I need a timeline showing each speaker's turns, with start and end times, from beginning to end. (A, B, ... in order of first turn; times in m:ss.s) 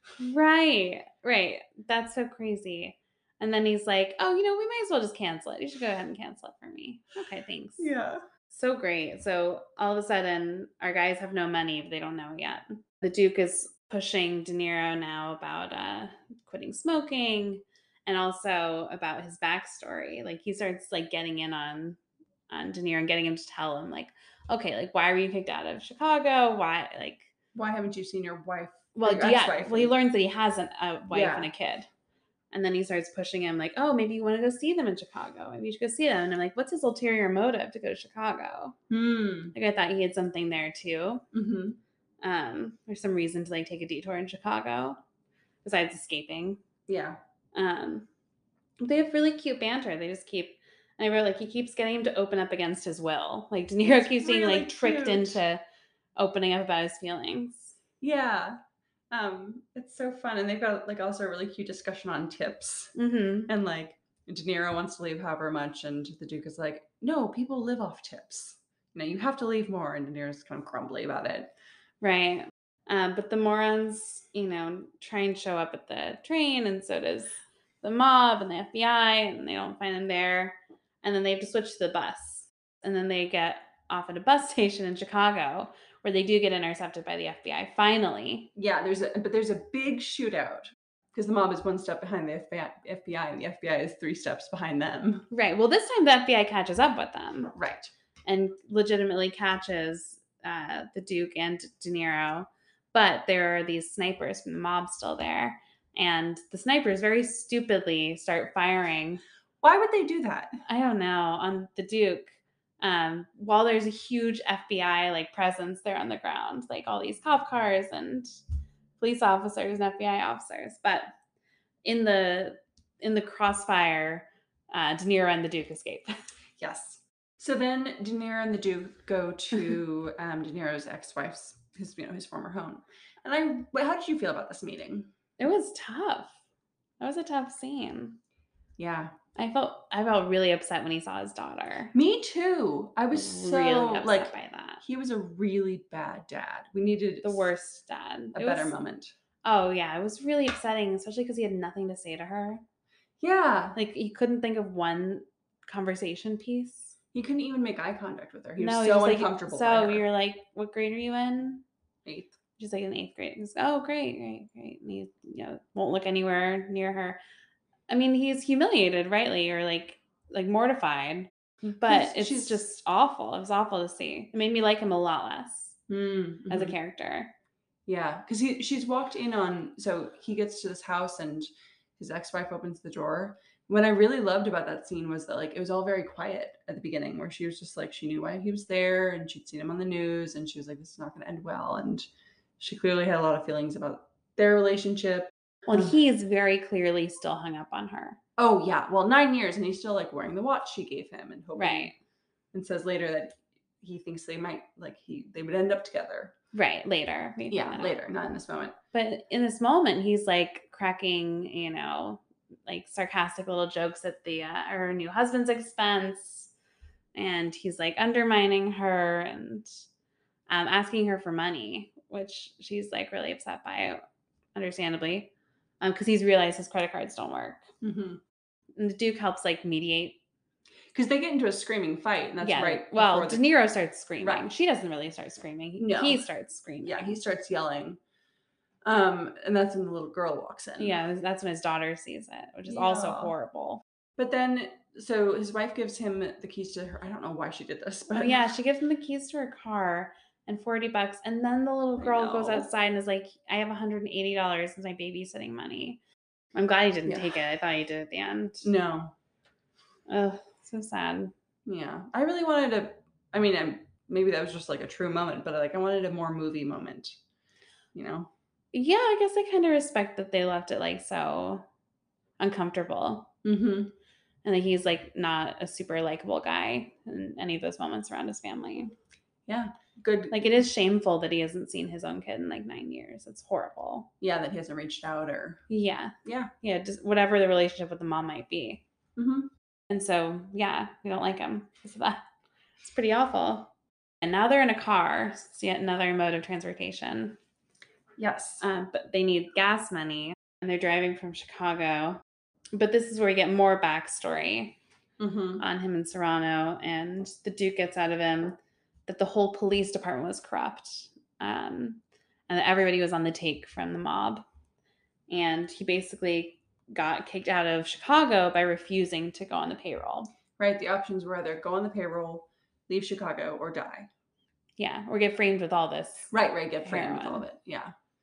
0:00.2-0:07.9 A
0:07.8-0:08.2 B
0:08.5-0:22.0 A
0:22.5-0:27.3 A
0:27.5-0:29.9 B
0:28.9-0:31.9 A
0:31.1-0:31.5 B
0:32.5-0:38.8 A
0:38.9-0:39.5 B
0:39.5-0:41.2 A
0:41.3-0:41.8 B
0:42.2-0:45.0 A
0:45.6-0:46.6 A
0:46.9-0:47.2 B
0:47.5-0:48.1 A
0:48.8-0:55.6 A
0:53.9-0:55.4 B
0:56.2-0:57.8 A
0:58.0-0:58.6 B
0:59.1-1:02.9 B
1:03.0-1:03.5 A
1:03.5-1:11.5 B
1:12.0-1:28.5 A
1:28.6-1:35.3 B
1:35.3-1:37.5 A
1:37.5-1:37.9 B
1:38.2-1:49.2 A
1:49.6-1:50.6 B
1:50.7-1:58.4 A
1:59.0-2:01.1 A
2:01.8-2:06.2 A
2:06.6-2:15.1 B
2:15.4-2:16.3 A
2:17.0-2:18.2 A
2:18.8-2:19.1 B
2:19.4-2:21.9 A
2:21.9-2:27.5 B
2:23.1-2:24.8 A
2:27.2-2:28.7 A
2:28.3-2:29.1 B
2:29.4-2:32.6 A
2:33.2-2:33.8 B
2:33.7-2:36.9 A
2:37.1-2:40.0 B
2:38.6-2:41.6 A
2:42.0-2:42.3 B
2:42.6-2:47.2 A
2:47.9-2:55.8 A
2:51.9-2:52.6 B
2:55.9-2:56.8 B
2:56.5-2:57.3 A
2:57.8-3:12.1 B
3:12.6-3:15.9 B
3:15.7-3:18.2 A
3:18.4-3:21.9 B
3:21.5-3:21.9 A
3:22.5-3:26.3 B
3:26.5-3:27.9 A
3:27.5-3:28.8 B
3:28.9-3:36.5 A
3:37.1-3:39.8 A
3:40.5-3:44.0 A
3:44.5-3:47.7 A
3:47.8-3:48.2 B
3:48.8-3:50.2 A
3:50.9-3:53.4 B
3:52.4-3:57.2 A
3:54.2-3:54.5 B
3:55.8-3:56.3 B
3:56.8-3:58.0 B
3:58.8-4:01.0 B
4:00.8-4:03.8 A
4:02.7-4:03.3 B
4:04.2-4:08.4 B
4:08.1-4:16.0 A
4:12.0-4:12.7 B
4:16.5-4:18.7 A
4:17.0-4:17.4 B
4:18.6-4:19.1 B
4:20.1-4:21.3 A
4:21.6-4:27.2 B
4:27.9-4:28.3 B
4:28.7-4:31.6 A
4:32.4-4:33.3 A
4:33.4-4:33.9 B
4:34.4-4:38.9 A
4:39.5-4:40.4 B
4:40.3-4:44.1 A
4:44.2-4:45.6 B
4:45.7-4:48.8 A
4:46.2-4:46.5 B
4:49.2-4:49.5 B
4:49.9-4:52.2 A
4:52.8-4:57.4 A
4:58.2-4:58.6 B
4:58.6-5:02.2 A
5:02.7-5:04.8 A
5:05.2-5:05.6 B
5:05.6-5:14.4 A
5:15.3-5:20.3 A
5:20.6-5:24.1 B
5:24.8-5:26.3 A
5:26.3-5:27.9 B
5:26.8-5:27.4 A